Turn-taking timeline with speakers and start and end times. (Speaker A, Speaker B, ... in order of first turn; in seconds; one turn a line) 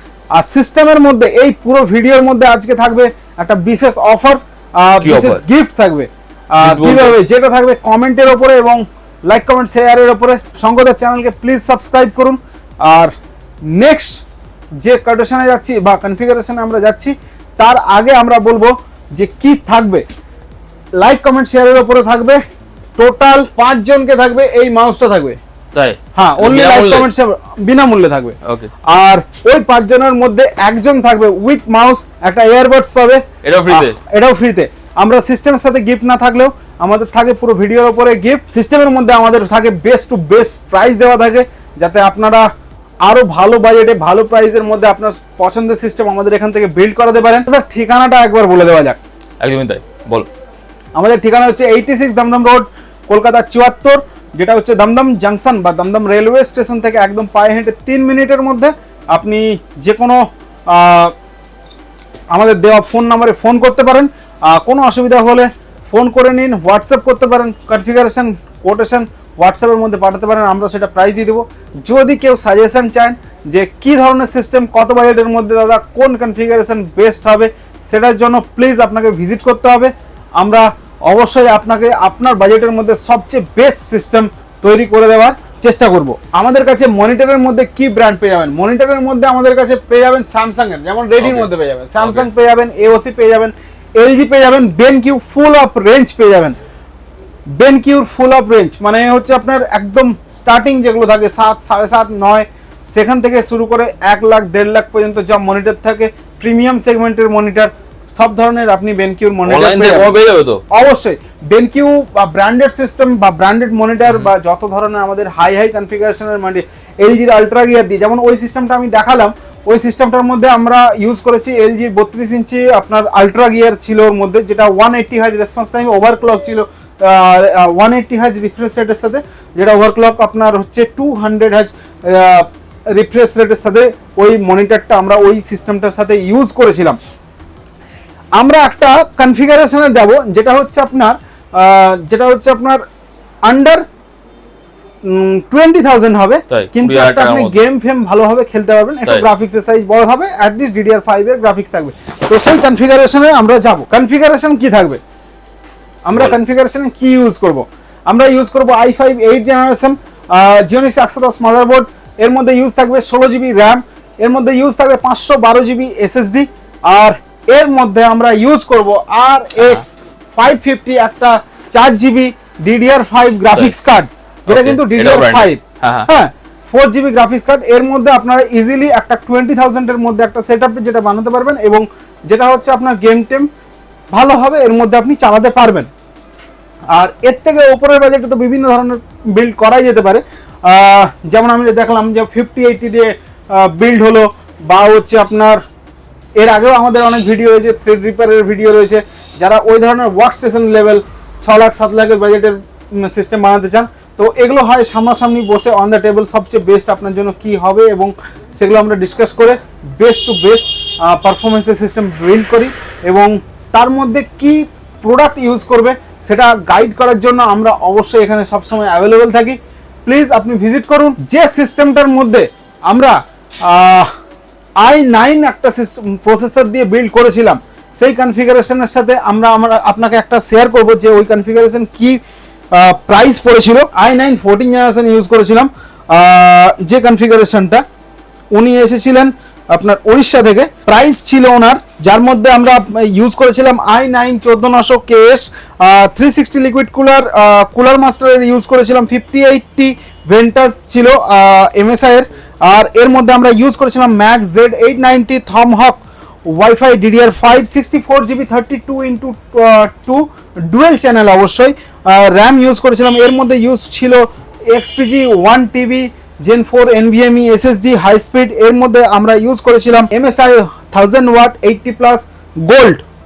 Speaker A: 0.3-13.1
Speaker B: 5.0-5.4
Speaker B: 6.6-7.1
Speaker A: 13.7-14.2
Speaker A: 14.8-20.0
Speaker A: 21.0-22.4
Speaker A: 23.0-25.4
Speaker B: 25.7-27.1
Speaker A: 26.1-28.4
Speaker B: 28.4-28.7
Speaker A: 28.9-42.5
Speaker B: 33.4-34.0
Speaker A: 43.0-49.0
Speaker B: 49.4-50.3
Speaker A: 51.0-61.1
Speaker A: 62.3-96.6
Speaker B: 91.2-92.3
Speaker A: 97.5-110.2
Speaker B: 109.5-110.6
Speaker A: 110.7-137.0
Speaker A: 138.3-142.8
Speaker A: 143.4-143.8
Speaker A: 145.0-155.0
Speaker B: 146.5-147.6
Speaker A: 156.0-183.5
Speaker B: 156.1-156.4
Speaker B: 169.6-169.8
Speaker B: 174.5-176.1
Speaker A: 184.1-185.9
Speaker A: 186.9-195.6
Speaker A: 196.4-224.1
Speaker A: 224.8-232.2
Speaker A: 232.7-237.8
Speaker A: 238.5-273.0